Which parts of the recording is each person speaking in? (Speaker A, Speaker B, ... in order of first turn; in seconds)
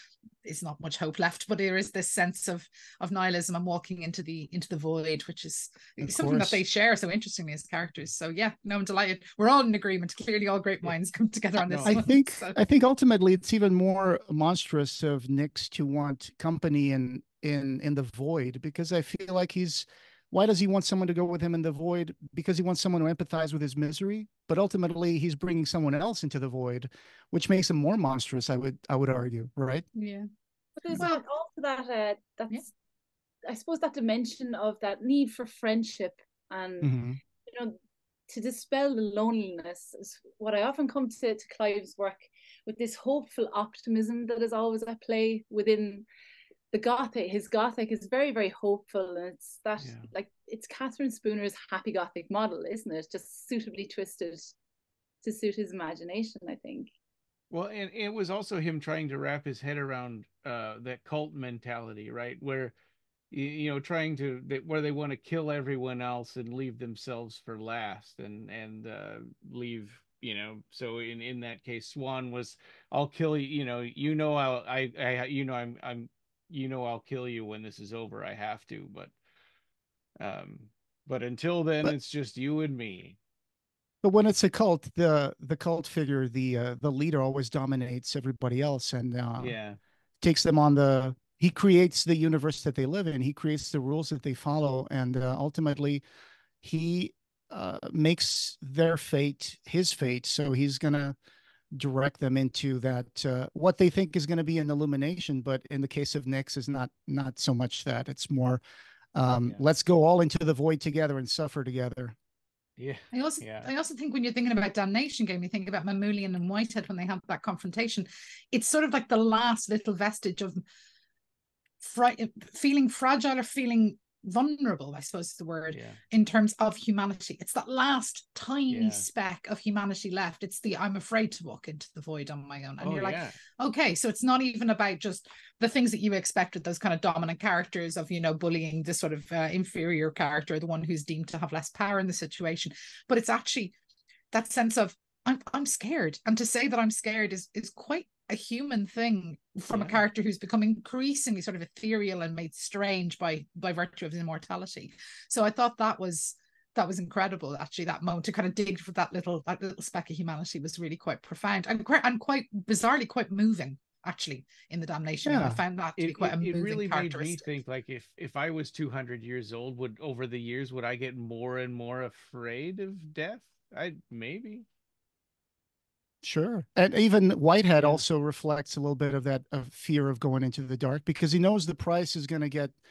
Speaker A: 0.4-12.6, 29.9-30.3, 30.9-31.2, 113.1-120.6, 121.8-143.7, 144.3-167.5
Speaker B: 6.0-6.6, 11.8-29.9, 36.8-37.2, 84.0-89.5, 90.2-96.0, 96.6-101.2, 101.7-108.6, 109.1-112.1, 165.2-165.6, 176.2-182.8
Speaker C: 11.6-12.0, 57.5-62.7, 63.3-79.1, 80.2-83.2, 89.4-89.8, 112.8-113.7, 125.7-126.0, 128.7-129.1, 132.8-133.4, 149.7-150.0, 166.0-174.7, 177.8-178.0
Speaker D: 30.8-32.7, 33.5-36.9, 37.4-37.8, 38.3-46.0, 46.7-54.5, 55.2-56.9